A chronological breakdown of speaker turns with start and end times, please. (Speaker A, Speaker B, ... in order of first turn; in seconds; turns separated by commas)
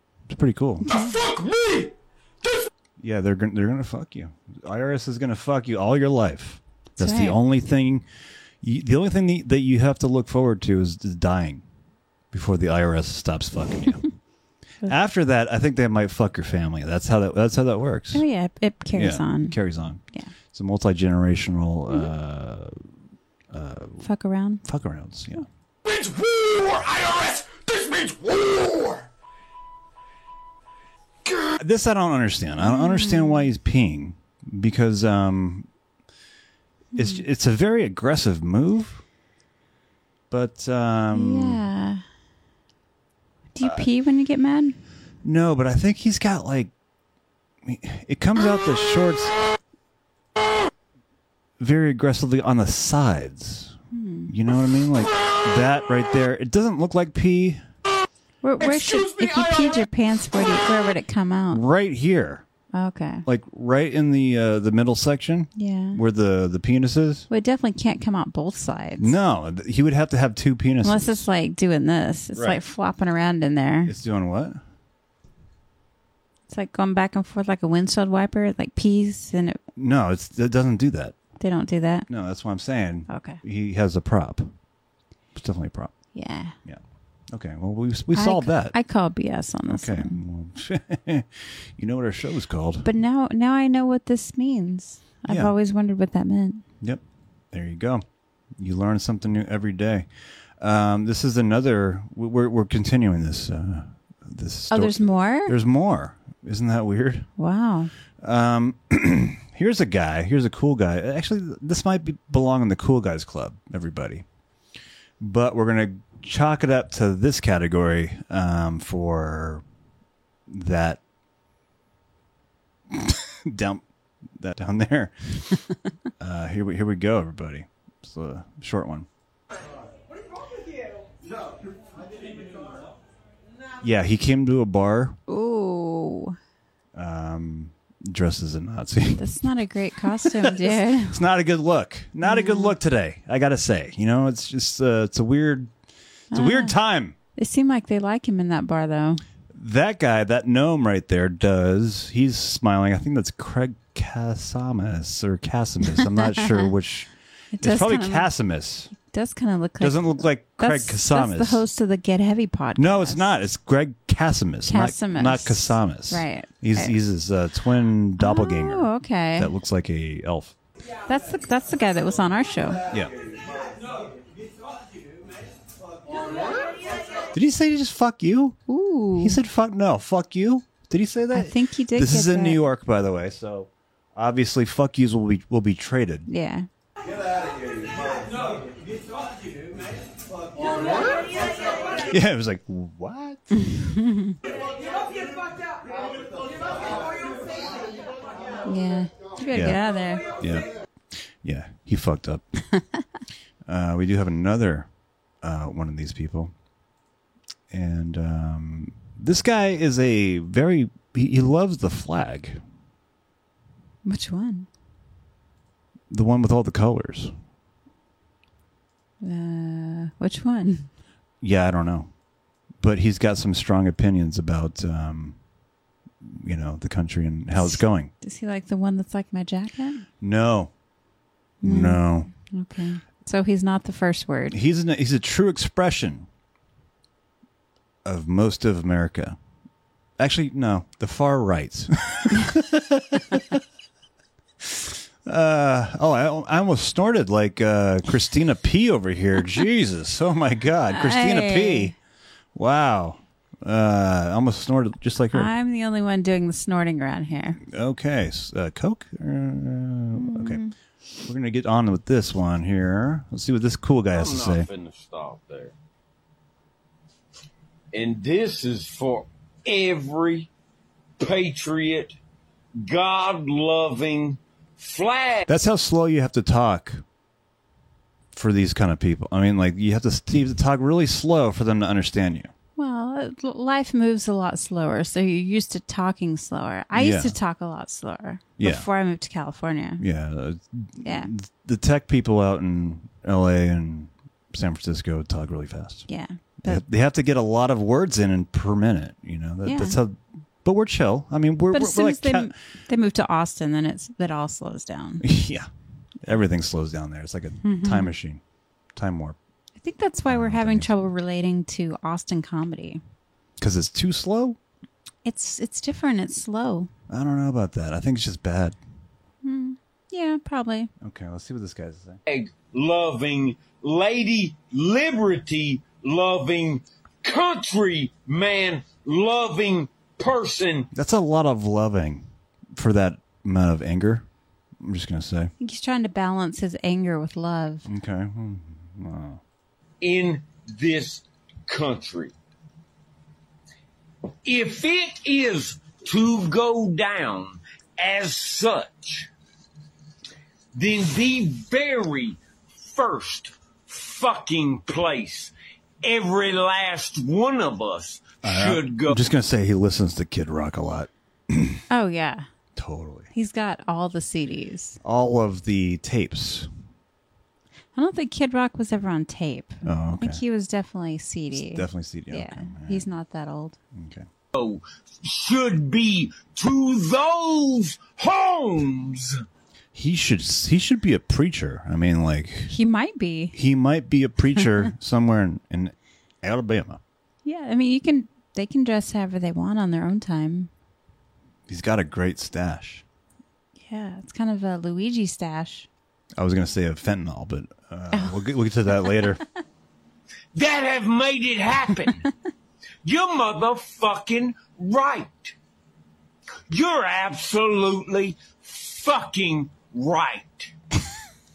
Speaker A: 0.3-0.9, Speaker B: 0.8-1.2, Speaker C: 0.9-2.7, Speaker A: 3.0-8.1, Speaker B: 7.0-7.4, Speaker A: 8.6-11.6, Speaker A: 12.3-14.0, Speaker A: 14.8-18.2, Speaker B: 18.1-19.6, Speaker A: 18.9-20.0, Speaker A: 20.5-22.8, Speaker A: 23.5-24.0, Speaker B: 24.0-24.6, Speaker A: 24.6-25.5, Speaker C: 25.8-29.1, Speaker C: 31.3-31.5, Speaker A: 31.6-35.7, Speaker B: 32.6-33.5, Speaker B: 36.9-37.2, Speaker A: 36.9-39.0, Speaker A: 40.3-41.6, Speaker B: 41.1-42.0, Speaker B: 43.5-44.8, Speaker A: 45.2-46.7, Speaker A: 47.6-49.3, Speaker A: 51.6-53.8, Speaker B: 53.9-54.3, Speaker A: 54.3-57.6, Speaker B: 58.4-61.6, Speaker C: 58.6-59.8, Speaker A: 61.5-62.4, Speaker B: 62.7-63.2, Speaker A: 63.2-67.3, Speaker B: 65.5-66.0, Speaker B: 67.3-69.1, Speaker A: 69.0-71.2, Speaker B: 70.8-73.9, Speaker A: 73.8-74.6, Speaker B: 76.5-79.6, Speaker A: 79.8-81.1, Speaker B: 81.4-82.1, Speaker A: 82.1-84.5, Speaker B: 83.1-83.4, Speaker A: 85.3-85.9, Speaker B: 86.1-86.5, Speaker A: 86.6-88.8, Speaker B: 88.1-90.2, Speaker A: 89.7-92.9, Speaker B: 92.8-96.6, Speaker A: 95.3-95.5, Speaker A: 96.8-98.0, Speaker A: 98.5-100.1, Speaker A: 100.6-107.3, Speaker B: 104.7-105.5, Speaker B: 107.4-107.9, Speaker A: 108.2-114.2, Speaker A: 115.2-119.6, Speaker A: 120.5-121.0, Speaker A: 122.9-123.8, Speaker A: 124.3-125.6, Speaker A: 126.2-129.1, Speaker A: 133.8-135.2, Speaker B: 135.3-136.3, Speaker A: 136.9-139.3, Speaker B: 139.2-141.2, Speaker A: 140.1-145.7, Speaker B: 142.2-142.8, Speaker B: 146.3-146.7, Speaker A: 146.3-147.2, Speaker B: 147.3-149.2, Speaker A: 149.5-158.9, Speaker B: 157.5-158.3, Speaker B: 158.9-163.3, Speaker A: 159.8-161.6, Speaker A: 162.8-170.6, Speaker B: 164.7-166.9, Speaker B: 168.2-169.5, Speaker B: 171.1-172.8, Speaker A: 177.3-178.6, Speaker B: 178.7-179.4, Speaker A: 179.2-186.3, Speaker B: 181.3-182.6, Speaker B: 186.3-186.7, Speaker A: 192.1-193.5, Speaker B: 193.6-194.3, Speaker B: 198.6-200.2, Speaker A: 199.5-199.8, Speaker A: 200.4-202.4, Speaker A: 203.7-204.9, Speaker A: 205.4-206.5, Speaker A: 207.7-212.6, Speaker B: 214.0-214.7, Speaker A: 216.1-217.3, Speaker B: 219.2-220.9, Speaker A: 221.4-222.1, Speaker A: 222.8-225.4, Speaker A: 226.2-228.1, Speaker B: 227.6-230.0, Speaker A: 230.2-230.7, Speaker A: 231.6-232.3, Speaker B: 231.6-234.6, Speaker A: 234.5-236.3, Speaker A: 238.0-239.4, Speaker A: 240.2-243.6, Speaker A: 244.6-251.9, Speaker B: 250.9-251.9, Speaker A: 252.5-255.5, Speaker B: 255.3-257.6, Speaker A: 257.6-260.6, Speaker B: 260.1-260.7, Speaker A: 261.2-264.7, Speaker D: 264.1-265.7, Speaker D: 267.9-270.5, Speaker D: 271.2-272.1, Speaker D: 272.8-275.5, Speaker A: 275.5-277.0, Speaker A: 278.3-282.5, Speaker B: 282.8-290.0, Speaker A: 286.9-287.4, Speaker A: 288.6-288.9, Speaker A: 290.0-296.1, Speaker B: 291.0-291.3, Speaker B: 296.1-296.8, Speaker A: 296.6-302.5, Speaker B: 299.6-300.0, Speaker B: 301.7-305.2, Speaker A: 305.2-305.7, Speaker A: 306.2-308.4, Speaker B: 307.6-308.1, Speaker A: 308.9-309.4, Speaker B: 309.8-313.0, Speaker A: 310.2-310.9, Speaker A: 313.6-314.6, Speaker B: 315.2-316.9, Speaker A: 317.1-318.8, Speaker B: 319.4-320.9, Speaker A: 321.0-322.2, Speaker D: 322.2-330.9, Speaker A: 330.9-334.2, Speaker A: 334.8-335.5, Speaker B: 335.6-337.9, Speaker A: 337.9-339.4, Speaker D: 340.0-342.3, Speaker D: 344.4-349.3, Speaker D: 350.7-359.2, Speaker A: 358.4-361.8, Speaker B: 361.9-362.5, Speaker A: 362.8-363.3, Speaker B: 363.3-365.0, Speaker A: 365.0-366.7, Speaker B: 367.9-373.8, Speaker A: 369.8-370.4, Speaker A: 371.5-373.1, Speaker A: 373.9-374.3, Speaker D: 374.5-379.4, Speaker A: 379.9-382.7, Speaker B: 382.7-383.5, Speaker A: 383.5-387.0, Speaker B: 387.4-390.7, Speaker A: 391.7-393.0, Speaker B: 393.8-395.9, Speaker A: 396.4-399.4, Speaker D: 400.5-402.3, Speaker D: 403.0-405.5, Speaker D: 406.7-410.7